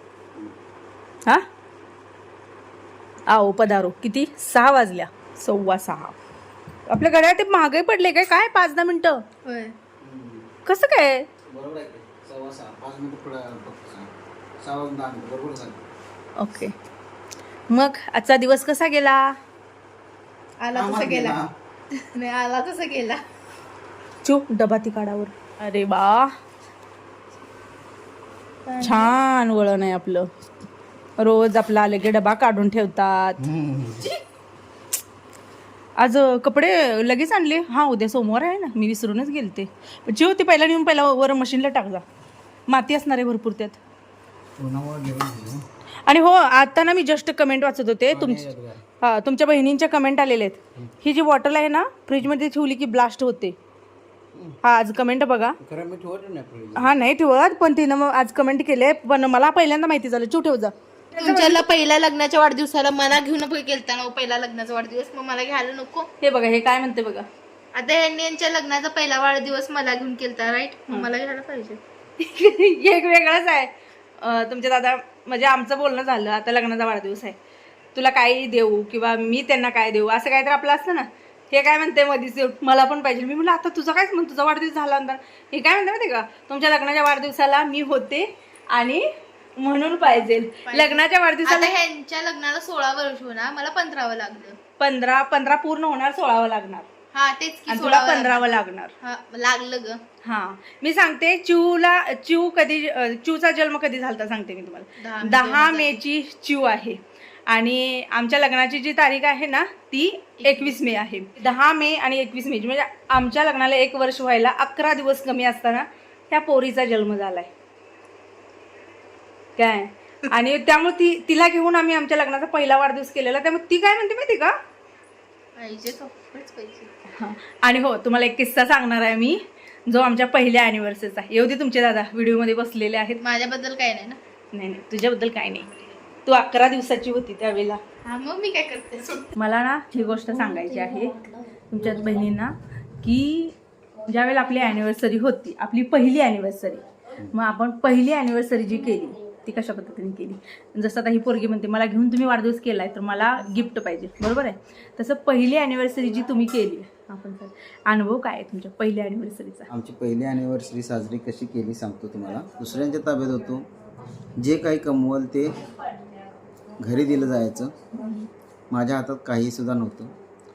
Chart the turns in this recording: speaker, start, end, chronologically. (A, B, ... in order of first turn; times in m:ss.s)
0:03.3-0:06.2 A
0:06.9-0:09.2 A
0:09.4-0:09.8 B
0:10.0-0:10.5 C
0:10.7-0:11.3 A
0:11.5-0:15.9 C
0:16.4-0:16.7 A
0:17.7-0:19.4 A
0:20.6-0:21.4 B
0:20.7-0:21.5 C
0:22.1-0:23.2 B
0:24.2-0:26.3 A
0:28.7-0:29.1 B
0:28.8-0:30.3 A
0:31.2-0:33.4 A
0:33.5-0:33.8 C
0:36.0-0:42.0 A
0:42.7-0:43.8 A
0:44.6-0:45.6 C
0:46.1-0:48.4 A
0:48.1-0:48.8 C
0:49.0-0:53.6 A
0:54.6-0:55.6 A
0:55.6-0:56.9 C
0:56.8-1:01.6 A
1:01.2-1:06.1 B
1:06.2-1:07.3 A
1:07.7-1:11.8 B
1:12.2-1:17.4 A
1:18.0-1:29.1 A
1:29.6-1:31.8 A
1:30.0-1:34.6 B
1:34.8-1:36.9 A
1:37.1-1:40.0 B
1:37.7-1:38.9 A
1:40.2-1:57.5 A
1:45.0-1:46.0 B
1:50.4-1:50.9 B
1:59.6-2:04.5 A
2:05.6-2:06.9 B
2:07.1-2:13.2 A
2:13.2-2:14.2 B
2:14.5-2:15.7 A
2:16.3-2:17.8 A
2:18.0-2:19.3 B
2:19.4-2:39.7 A
2:39.7-2:43.7 C
2:44.4-2:45.5 C
2:46.8-2:47.8 C
2:48.0-2:48.3 A
2:48.7-2:50.1 C